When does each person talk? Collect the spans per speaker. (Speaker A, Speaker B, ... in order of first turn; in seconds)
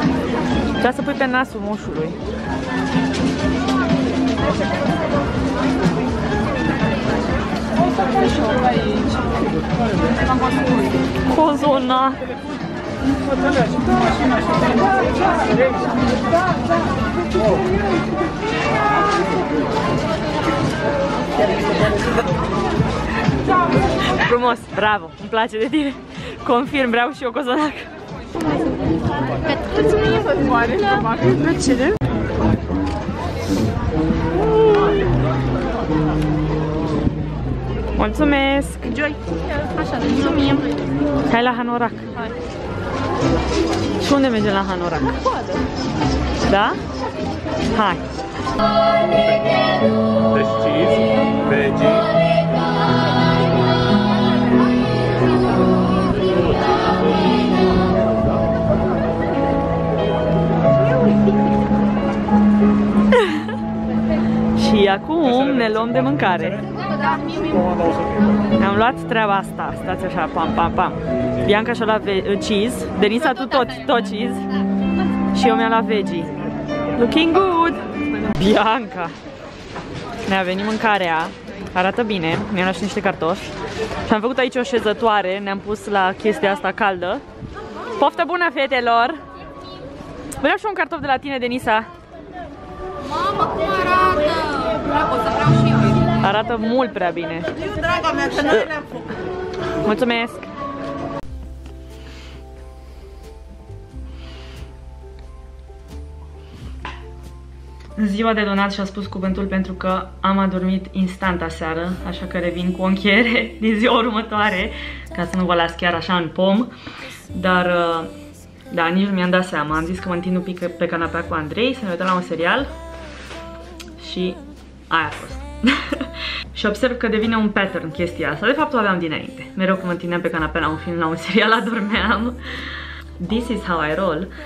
Speaker A: 0.8-2.2, 11.3-12.2, 24.2-27.9, 31.4-31.9, 38.0-39.2, 40.1-40.6, 41.3-42.1, 44.0-45.3, 46.5-46.8, 47.7-48.0, 63.1-63.5, 64.5-66.6, 68.6-74.4, 75.3-76.3, 77.0-77.8, 78.3-79.1, 80.2-83.5, 84.1-87.2, 88.0-89.2, 90.4-91.9, 96.2-97.5, 98.4-98.8, 99.8-100.5, 108.0-116.7, 117.3-118.1, 118.7-122.7, 124.0-132.4, 133.2-134.3
Speaker B: 8.3-8.7, 29.3-31.5, 39.5-40.7, 45.3-45.6, 66.7-68.1, 93.2-95.9, 97.8-98.5
Speaker C: 49.0-49.4, 50.3-52.1